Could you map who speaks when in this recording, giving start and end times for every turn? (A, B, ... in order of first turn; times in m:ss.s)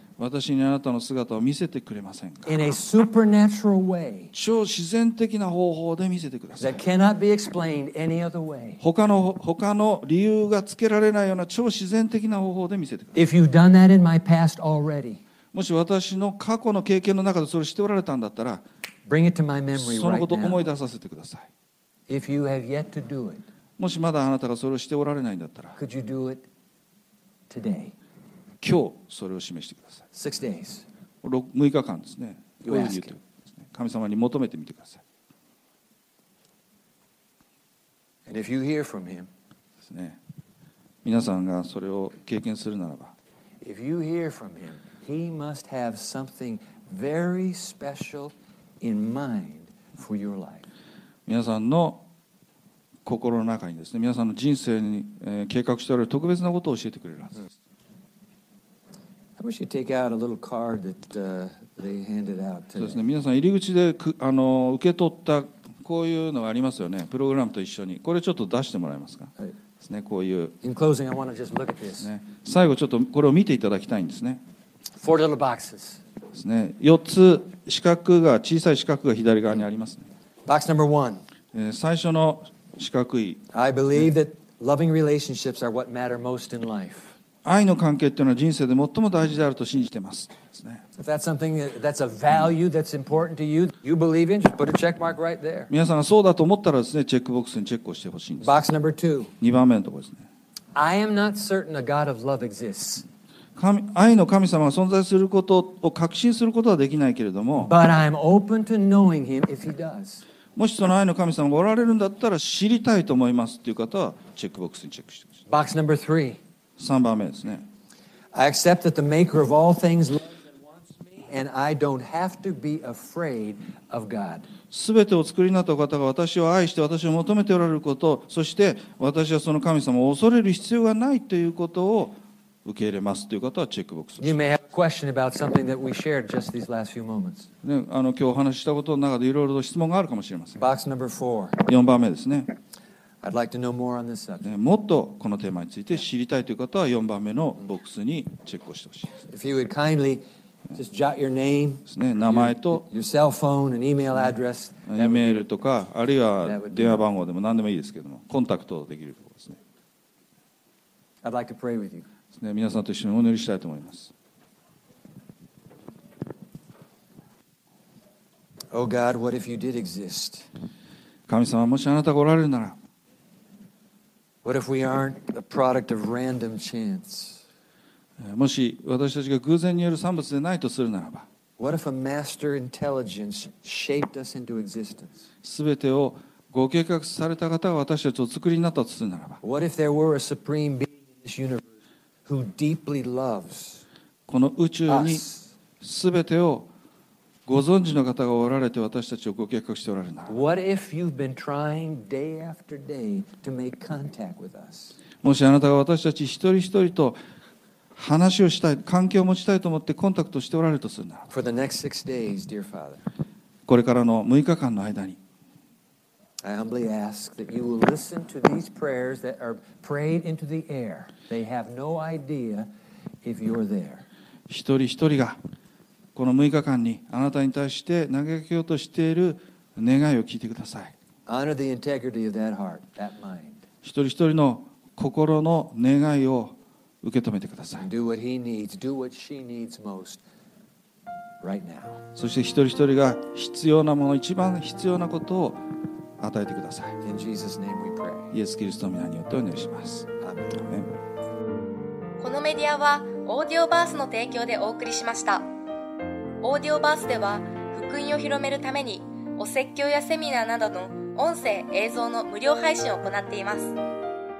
0:00.2-0:02.6 A
0:02.4-0:04.3 B
0:04.3-0:06.8 A
0:06.6-0:08.8 B
0:08.8-0:13.2 A
0:13.1-0:15.2 B
0:15.5-0:18.6 A
0:19.1-0:20.7 B
0:19.7-0:21.5 A
0:22.1-0:23.4 B
0:23.8-0:25.8 A
0:25.8-0:26.4 B
0:27.5-0:27.9 B
0:28.6-0:30.0 A
0:30.1-0:30.8 B
0:31.2-0:35.0 A
0:32.6-0:33.1 B
0:38.2-0:39.3 B
0:39.8-0:40.2 A
0:41.0-0:43.1 A
0:43.6-0:50.7 B
0:51.2-0:52.0 A
0:53.0-0:57.5 A
0:59.4-1:03.0 B
1:02.8-1:10.6 A
1:10.6-1:12.1 B
1:12.0-1:14.4 A
1:15.0-1:16.0 B
1:16.3-1:20.1 A
1:20.4-1:21.2 B
1:21.5-1:24.1 A
1:23.5-1:27.1 B
1:27.4-1:30.8 A
1:31.0-1:35.7 B
1:35.7-1:38.6 A
1:38.4-1:39.3 B
1:39.4-1:40.2 A
1:40.7-1:43.0 B
1:43.6-1:47.7 A
1:47.6-1:50.2 B
1:50.6-1:55.4 A
1:55.5-1:56.4 B
1:56.8-1:57.7 A
1:58.3-2:04.5 B
2:04.7-2:14.4 A
2:14.2-2:17.5 B
2:17.6-2:20.6 A
2:20.6-2:21.6 B
2:21.6-2:22.5 A
2:23.2-2:24.5 B
2:24.4-2:29.1 A
2:29.3-2:30.2 B
2:30.7-2:35.5 B
2:31.9-2:32.8 A
2:34.9-2:39.6 A
2:36.4-2:37.1 B
2:41.2-2:42.0 B
2:42.3-2:44.1 A
2:48.7-2:50.5 B
2:51.3-2:52.8 A
2:54.4-2:57.4 B
2:58.2-3:01.2 A
3:01.6-3:05.2 B
3:05.4-3:09.4 A
3:09.4-3:11.6 B
3:12.2-3:13.8 B
3:14.3-3:15.3 A
3:14.9-3:15.4 B
3:15.8-3:16.7 A
3:17.4-3:20.3 A
3:20.3-3:25.0 B
3:25.2-3:27.2 A
3:27.9-3:31.3 A
3:31.3-3:33.0 B
3:33.6-3:35.2 A
3:36.4-3:42.7 B
3:43.2-3:44.0 B
3:44.5-3:45.4 A
3:46.1-3:50.9 A
3:51.3-3:53.6 B
3:53.8-3:57.9 A
3:57.8-4:00.2 B
4:01.4-4:02.0 B
4:02.2-4:05.6 A
4:06.2-4:07.0 A
4:07.0-4:08.3 B
4:08.3-4:11.0 A
4:10.2-4:10.6 B
4:12.2-4:15.5 C
4:16.4-4:23.8 C